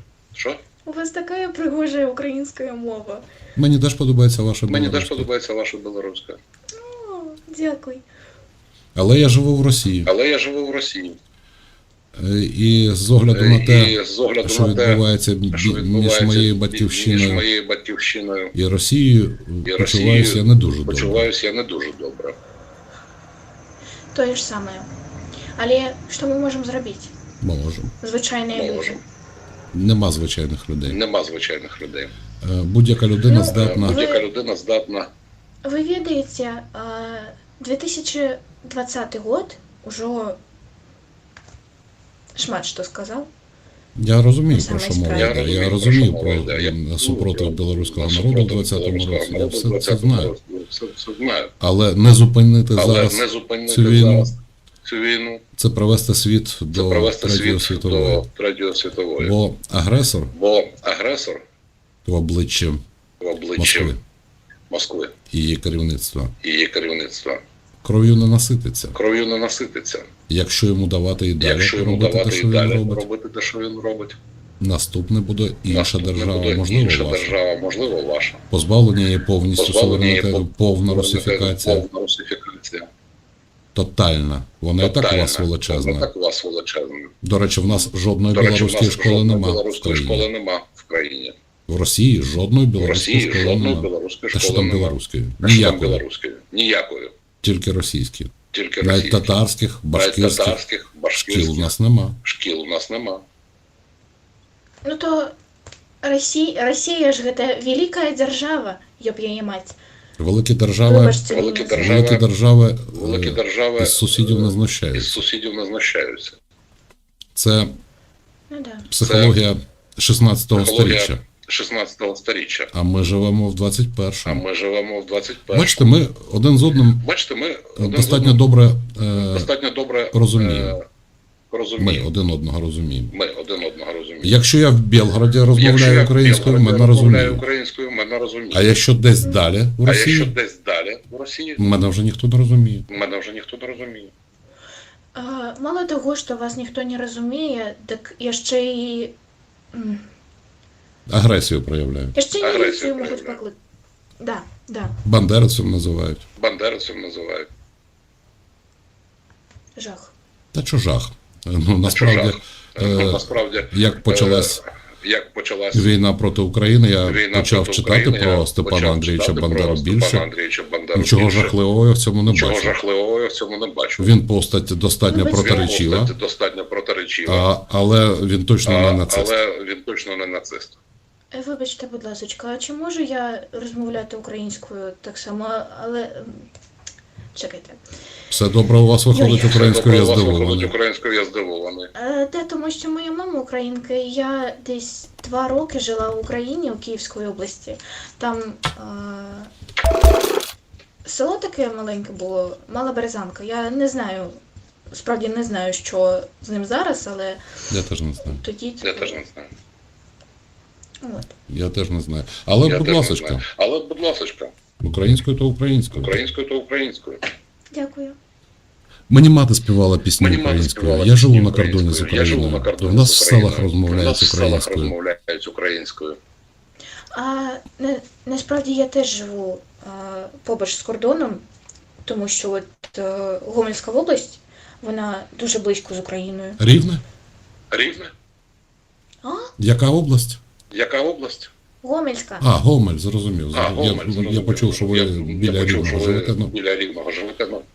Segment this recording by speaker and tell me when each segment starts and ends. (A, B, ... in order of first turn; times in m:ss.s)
0:00.3-0:00.6 A
0:00.8-0:03.2 B
0:03.6-0:05.3 C
0:04.7-0:06.4 A
0:06.8-0:08.0 B
0:08.9-0:10.1 C
0:10.0-0:11.2 A
0:12.2-0:17.4 C
0:13.3-0:15.0 A
0:15.5-0:18.5 A
0:18.5-0:21.3 C
0:19.6-0:22.4 A
0:24.1-0:24.9 B
0:25.6-0:27.1 B
0:27.4-0:27.9 C
0:28.0-0:29.0 B
0:28.5-0:29.0 A
0:29.7-0:31.0 C
0:30.8-0:32.1 A
0:32.4-0:34.0 C
0:33.3-0:34.2 B
0:33.4-0:35.1 A
0:35.6-0:40.4 B
0:42.3-0:43.3 B
0:44.0-0:50.3 C
0:44.5-0:45.4 B
0:45.1-0:51.5 A
0:51.6-0:54.3 C
0:52.8-0:55.4 A
0:55.6-0:58.3 C
0:56.7-0:59.3 A
0:59.2-1:00.3 C
1:00.3-1:01.4 A
1:02.0-1:02.8 C
1:03.2-1:04.0 A
1:03.6-1:04.0 C
1:04.7-1:05.1 A
1:05.3-1:06.3 C
1:06.4-1:07.4 A
1:07.8-1:09.0 C
1:08.9-1:10.1 A
1:10.3-1:13.0 C
1:11.4-1:14.2 A
1:14.6-1:17.4 C
1:15.7-1:18.4 A
1:18.5-1:21.8 C
1:19.6-1:22.9 A
1:23.7-1:26.1 C
1:24.8-1:27.1 A
1:27.2-1:30.3 C
1:28.3-1:31.3 A
1:31.7-1:36.0 C
1:32.8-1:37.1 A
1:37.4-1:40.6 C
1:38.5-1:39.3 A
1:39.9-1:43.2 A
1:41.1-1:42.2 C
1:44.8-1:45.3 B
1:46.0-1:49.8 B
1:50.2-1:55.2 C
1:50.8-1:51.9 B
1:51.3-1:52.2 A
1:52.9-1:56.4 A
1:57.4-1:57.7 C
1:58.5-1:58.9 B
1:58.9-2:01.2 C
1:59.0-1:59.4 A
2:00.6-2:02.7 A
2:02.7-2:04.4 C
2:04.2-2:05.8 A
2:05.5-2:07.0 C
2:07.0-2:08.4 A
2:07.8-2:09.5 C
2:09.2-2:10.8 A
2:10.1-2:10.8 C
2:11.5-2:12.0 A
2:11.8-2:13.1 C
2:13.1-2:14.4 A
2:14.2-2:17.4 C
2:15.5-2:18.7 A
2:18.5-2:20.3 C
2:19.8-2:21.6 A
2:21.6-2:22.9 C
2:22.9-2:24.1 A
2:25.1-2:29.2 B
2:29.7-2:30.0 B
2:31.1-2:32.1 C
2:32.1-2:33.6 B
2:32.4-2:33.4 A
2:34.2-2:35.0 B
2:35.0-2:36.2 C
2:36.4-2:37.5 A
2:39.8-2:40.1 B
2:40.5-2:44.6 C
2:41.9-2:45.9 A
2:45.7-2:50.3 C
2:47.0-2:51.6 A
2:50.9-2:52.8 C
2:52.2-2:54.1 A
2:54.0-2:56.1 C
2:55.1-2:55.7 B
2:55.3-2:57.4 A
2:57.3-2:59.3 C
2:58.6-3:00.8 A
3:01.3-3:06.5 B
3:07.3-3:07.8 B
3:08.3-3:10.7 C
3:09.1-3:09.6 B
3:09.4-3:11.9 A
3:11.9-3:19.5 B
3:21.0-3:24.4 B
3:24.9-3:27.4 B
3:27.7-3:28.4 C
3:28.4-3:29.2 B
3:28.8-3:29.5 A
3:31.0-3:31.4 B
3:31.5-3:33.4 C
3:32.6-3:34.5 A
3:34.8-3:36.2 C
3:35.9-3:37.2 A
3:37.7-3:38.2 B
3:39.1-3:44.9 C
3:40.2-3:46.2 A
3:47.1-3:51.4 B
3:52.0-3:56.6 B
3:56.6-3:57.0 C
3:57.7-3:58.1 A
3:59.2-3:59.5 B
3:59.6-4:00.4 C
4:00.7-4:01.5 A
4:01.8-4:02.5 B
4:02.4-4:06.5 C
4:03.5-4:07.6 A